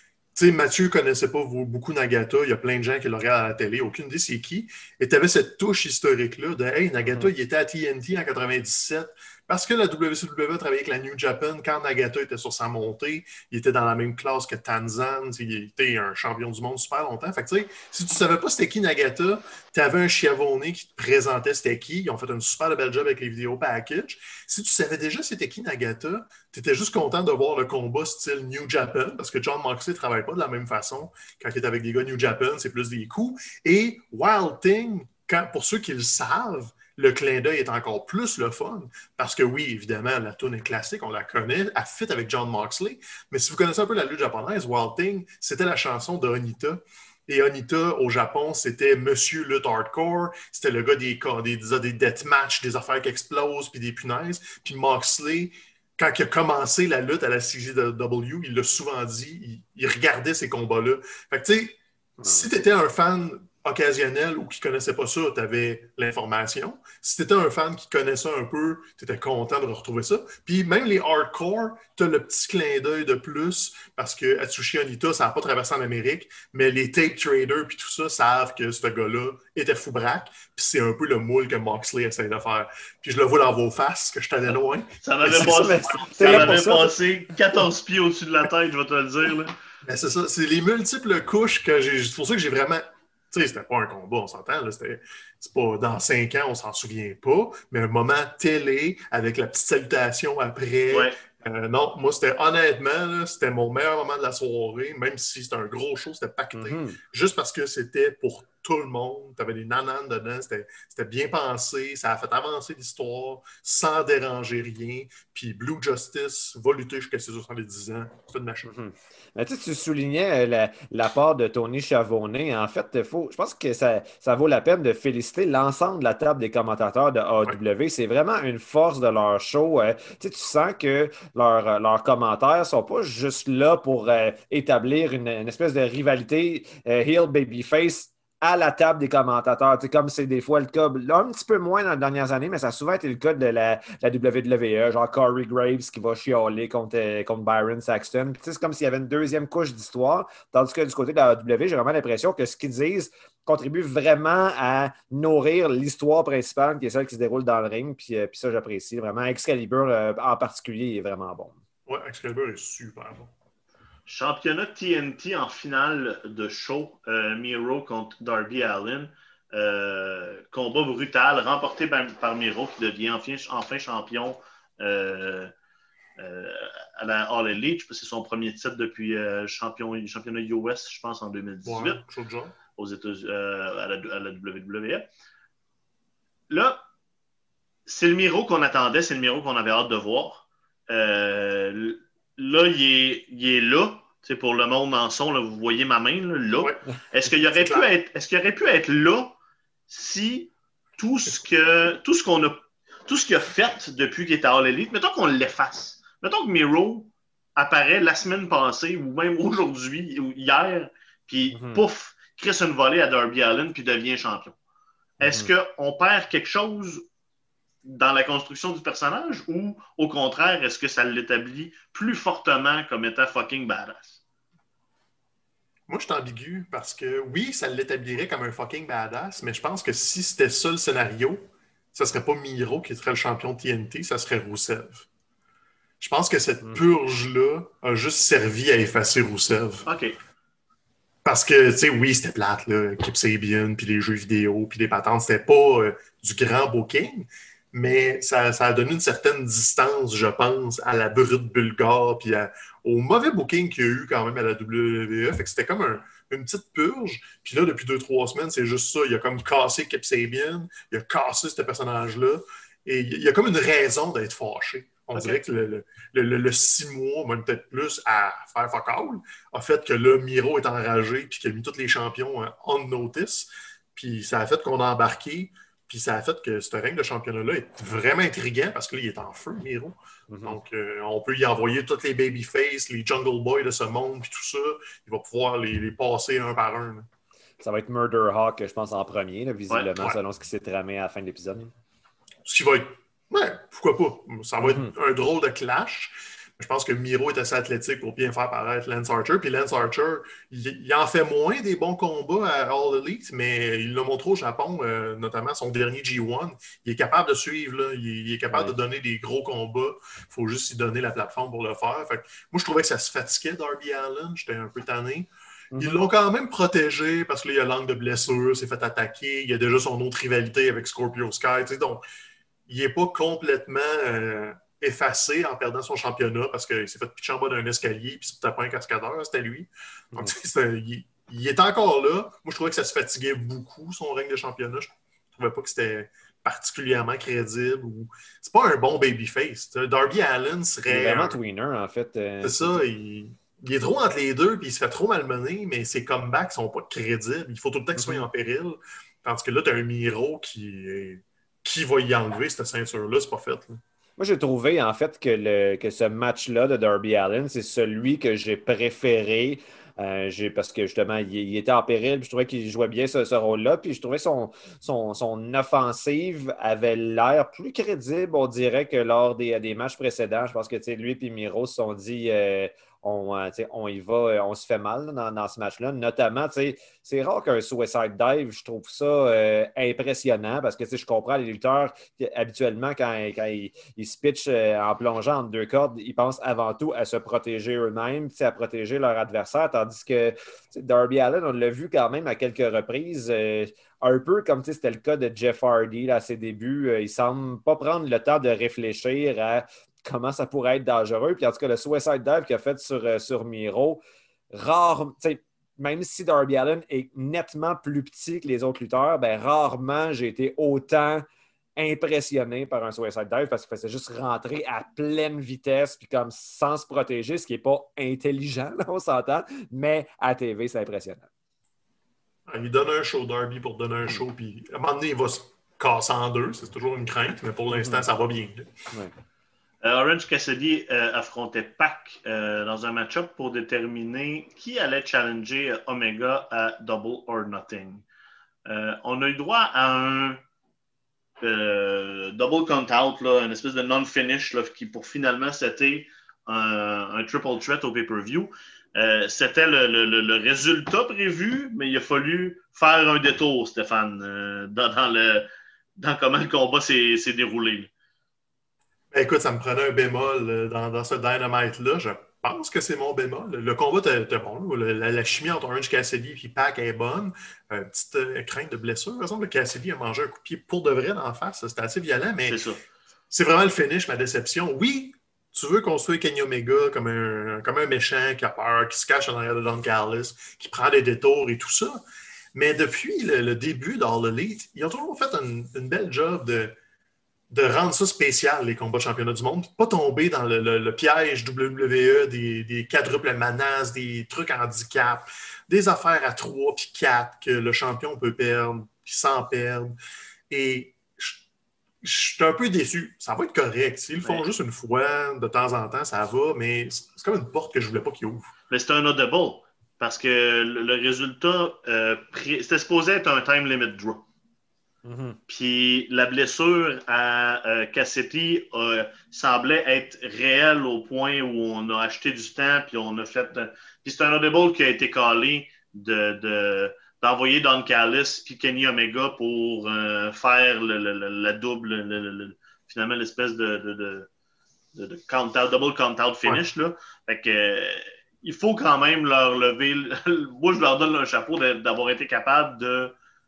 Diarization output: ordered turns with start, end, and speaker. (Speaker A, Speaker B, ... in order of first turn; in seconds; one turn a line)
Speaker A: 0.3-86.6
Speaker B: 7.0-7.3
Speaker B: 62.2-62.5
Speaker C: 85.0-89.5
Speaker B: 85.2-86.9
Speaker A: 89.8-118.7
Speaker C: 100.9-101.2
Speaker B: 106.5-107.0
Speaker B: 118.7-161.6
Speaker A: 161.9-163.3
Speaker C: 164.1-175.5
Speaker C: 176.2-182.0
Speaker A: 181.7-182.6
Speaker C: 182.8-185.1
Speaker C: 186.5-186.8
Speaker C: 187.9-199.4
Speaker A: 197.3-197.9
Speaker C: 199.9-214.6
Speaker B: 211.5-211.8
Speaker C: 215.2-217.0
Speaker B: 215.2-215.5
Speaker C: 217.8-224.2
Speaker A: 225.9-235.1
Speaker A: 236.0-239.8
Speaker C: 239.9-240.2
Speaker A: 241.2-287.1
Speaker B: 280.3-280.6
Speaker B: 287.6-291.7
Speaker A: 292.4-322.0
Speaker B: 294.6-294.9
Speaker B: 315.7-316.0
Speaker A: 322.7-341.4
Speaker B: 340.9-342.8
Speaker A: 342.4-353.8
Speaker B: 348.0-348.2
Speaker B: 354.2-404.0
Speaker B: 404.5-411.2
Speaker B: 411.8-421.3
Speaker A: 422.5-428.7
Speaker B: 427.7-428.1
Speaker C: 429.8-438.1
Speaker C: 438.7-440.4
Speaker C: 441.4-457.9
Speaker A: 459.1-472.6
Speaker C: 472.5-472.8
Speaker A: 473.3-482.0
Speaker A: 482.5-486.8
Speaker A: 487.5-499.9
Speaker A: 500.5-501.4
Speaker A: 502.0-508.5
Speaker C: 508.7-514.3
Speaker B: 515.0-515.4
Speaker C: 515.5-534.3
Speaker C: 534.9-543.1